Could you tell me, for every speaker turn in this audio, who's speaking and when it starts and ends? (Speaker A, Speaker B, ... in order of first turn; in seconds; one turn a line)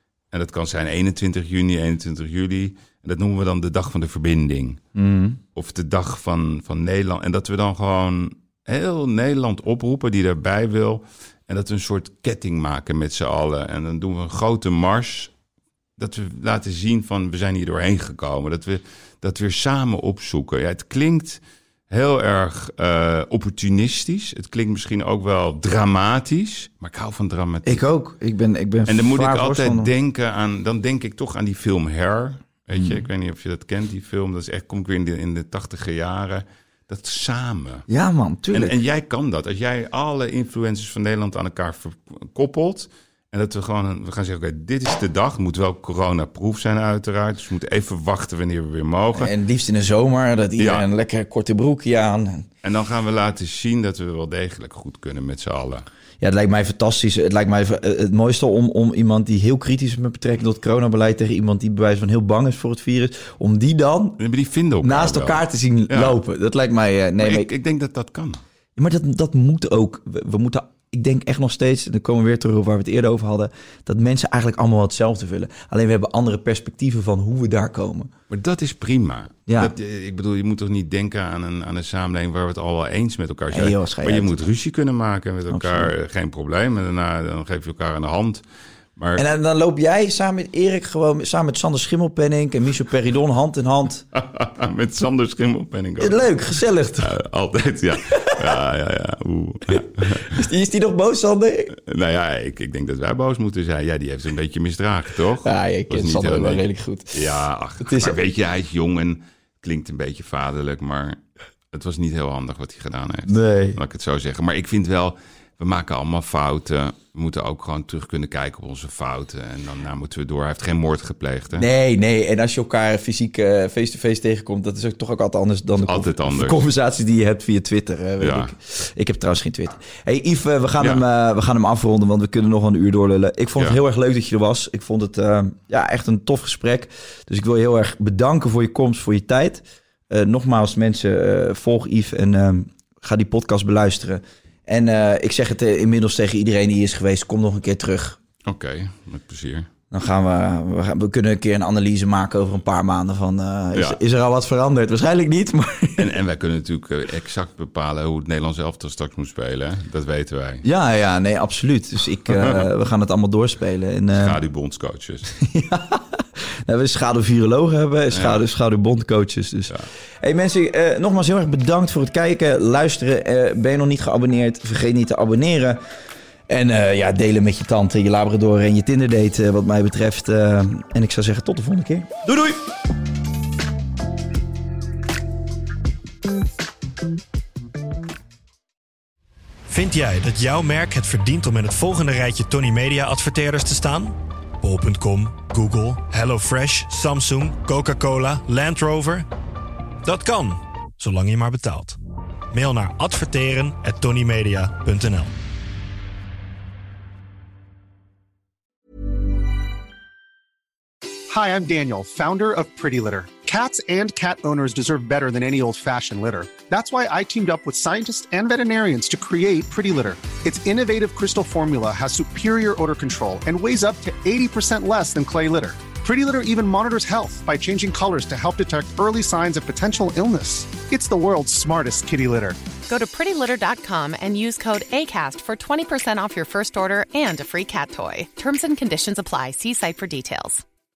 Speaker A: 0.3-4.8
Speaker B: 5.0-5.4
Speaker A: 5.5-15.3
Speaker A: 16.0-27.9
Speaker B: 27.6-29.9
Speaker A: 28.9-37.9
Speaker B: 32.7-33.0
Speaker B: 37.9-38.8
Speaker A: 38.5-49.3
Speaker B: 49.1-52.5
Speaker A: 50.6-50.9
Speaker A: 52.6-55.9
Speaker B: 56.2-64.2
Speaker A: 64.2-66.2
Speaker B: 64.8-67.5
Speaker A: 67.2-68.4
Speaker B: 68.8-78.1
Speaker A: 78.3-88.4
Speaker B: 79.5-79.7
Speaker B: 83.5-84.4
Speaker B: 85.5-85.9
Speaker A: 89.0-89.2
Speaker B: 89.2-94.0
Speaker A: 94.1-96.3
Speaker B: 96.0-97.1
Speaker A: 97.0-100.4
Speaker B: 98.1-98.5
Speaker B: 99.7-101.7
Speaker A: 101.7-111.2
Speaker B: 105.4-107.2
Speaker B: 107.8-108.2
Speaker A: 111.7-121.7
Speaker B: 113.3-113.8
Speaker B: 121.6-148.2
Speaker A: 125.8-126.6
Speaker A: 128.2-128.5
Speaker A: 148.4-149.7
Speaker B: 149.9-156.1
Speaker A: 156.0-160.6
Speaker B: 160.6-164.4
Speaker A: 162.3-162.7
Speaker A: 164.1-165.3
Speaker B: 165.3-175.8
Speaker A: 168.1-168.4
Speaker B: 176.5-182.6
Speaker C: 189.7-199.3
Speaker C: 200.0-202.0
Speaker C: 202.5-205.3
Speaker D: 211.3-232.6
Speaker E: 232.9-240.6